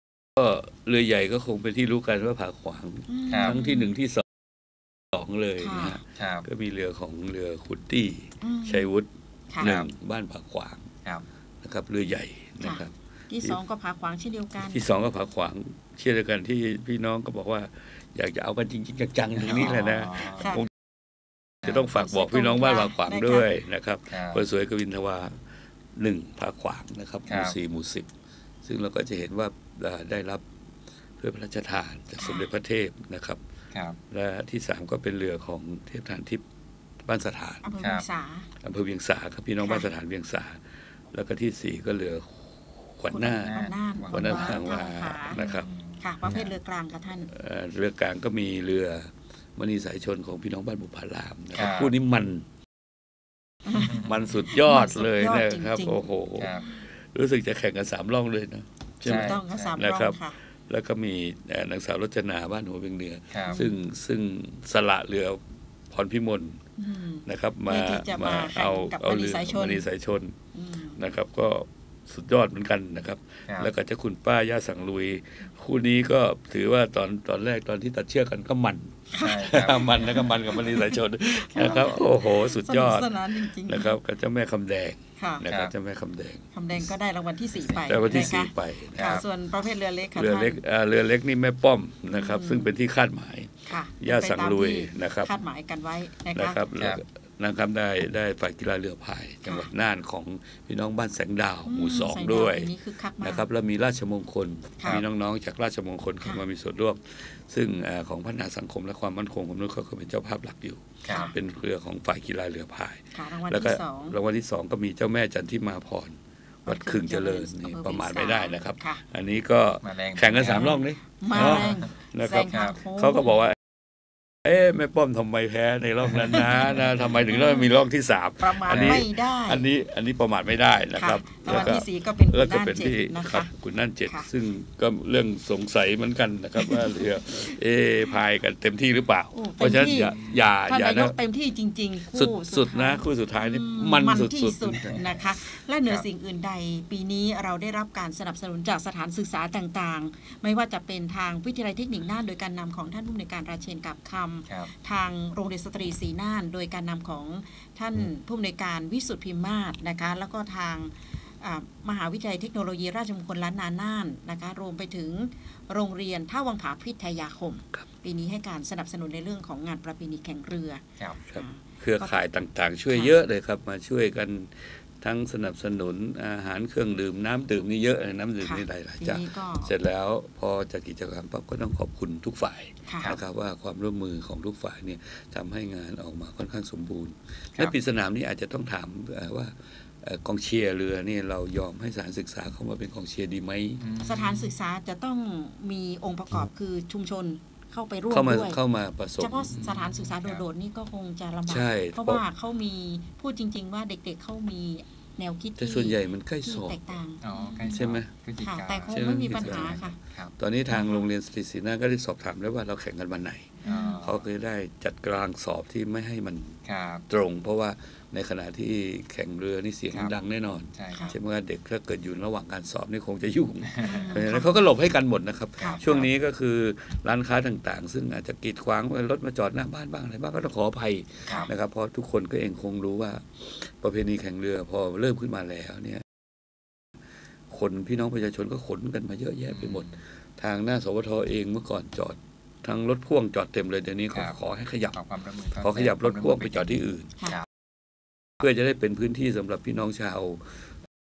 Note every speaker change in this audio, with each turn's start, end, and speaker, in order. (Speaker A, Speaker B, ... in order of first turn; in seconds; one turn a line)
Speaker A: 0.4-4.5
Speaker B: 3.1-3.9
Speaker C: 3.3-3.6
Speaker A: 5.0-9.1
Speaker B: 5.6-6.0
Speaker C: 6.2-6.5
Speaker B: 8.4-8.9
Speaker A: 9.6-10.9
Speaker C: 9.6-9.9
Speaker A: 11.6-13.6
Speaker B: 12.6-14.9
Speaker A: 14.6-20.7
Speaker C: 19.4-20.6
Speaker B: 19.4-20.6
Speaker A: 21.6-25.4
Speaker C: 21.6-22.1
Speaker B: 22.0-23.5
Speaker C: 24.1-24.4
Speaker A: 25.9-28.1
Speaker C: 27.3-27.6
Speaker A: 28.6-30.5
Speaker A: 31.2-33.4
Speaker B: 32.2-32.5
Speaker C: 33.7-34.0
Speaker A: 34.1-36.4
Speaker A: 37.0-37.6
Speaker B: 37.6-38.5
Speaker C: 37.8-38.0
Speaker A: 38.6-45.7
Speaker B: 39.6-39.9
Speaker B: 43.1-45.4
Speaker C: 43.4-44.7
Speaker C: 45.3-46.5
Speaker B: 46.0-47.3
Speaker A: 47.3-52.5
Speaker C: 51.5-51.9
Speaker B: 53.7-56.0
Speaker C: 53.7-54.2
Speaker A: 53.9-66.6
Speaker C: 56.4-56.7
Speaker B: 56.6-56.8
Speaker C: 59.0-59.7
Speaker B: 59.0-60.4
Speaker C: 63.3-63.6
Speaker B: 63.5-63.8
Speaker B: 66.8-69.9
Speaker A: 67.3-70.4
Speaker B: 70.5-71.0
Speaker A: 71.0-86.9
Speaker B: 79.1-80.9
Speaker C: 79.1-80.3
Speaker B: 81.5-84.0
Speaker C: 81.5-82.0
Speaker B: 85.2-85.5
Speaker C: 85.5-85.7
Speaker B: 86.5-90.6
Speaker C: 87.6-88.4
Speaker A: 87.9-89.2
Speaker C: 89.0-89.2
Speaker A: 90.2-95.3
Speaker B: 92.1-92.7
Speaker B: 93.7-96.6
Speaker A: 96.3-123.6
Speaker C: 96.8-97.0
Speaker B: 101.7-103.5
Speaker C: 111.0-111.3
Speaker B: 113.1-114.2
Speaker B: 116.7-119.0
Speaker C: 119.8-121.9
Speaker B: 120.5-123.3
Speaker C: 122.5-122.8
Speaker A: 124.4-141.2
Speaker B: 126.3-127.7
Speaker C: 126.7-127.2
Speaker B: 128.4-129.7
Speaker C: 128.7-129.0
Speaker B: 131.0-133.5
Speaker C: 131.5-131.8
Speaker B: 136.6-137.1
Speaker B: 139.3-140.1
Speaker C: 139.9-140.4
Speaker B: 140.7-170.8
Speaker A: 142.1-145.2
Speaker A: 171.3-193.8
Speaker B: 171.3-172.2
Speaker B: 178.4-179.7
Speaker B: 182.9-183.1
Speaker C: 193.8-194.5
Speaker B: 194.0-198.6
Speaker A: 198.1-199.7
Speaker B: 199.2-207.8
Speaker C: 199.5-200.4
Speaker A: 201.5-202.2
Speaker A: 205.6-207.0
Speaker C: 207.2-210.3
Speaker A: 207.7-208.1
Speaker B: 208.4-210.0
Speaker A: 208.9-209.8
Speaker A: 210.4-236.1
Speaker B: 210.7-211.1
Speaker C: 213.6-214.2
Speaker B: 213.7-214.0
Speaker C: 216.7-217.0
Speaker C: 220.8-221.1
Speaker B: 220.9-221.2
Speaker C: 223.7-224.2
Speaker B: 223.8-224.6
Speaker C: 225.6-226.1
Speaker B: 231.3-231.5
Speaker A: 237.5-245.0
Speaker C: 239.5-240.0
Speaker C: 244.9-247.5
Speaker A: 245.6-247.1
Speaker A: 248.4-250.7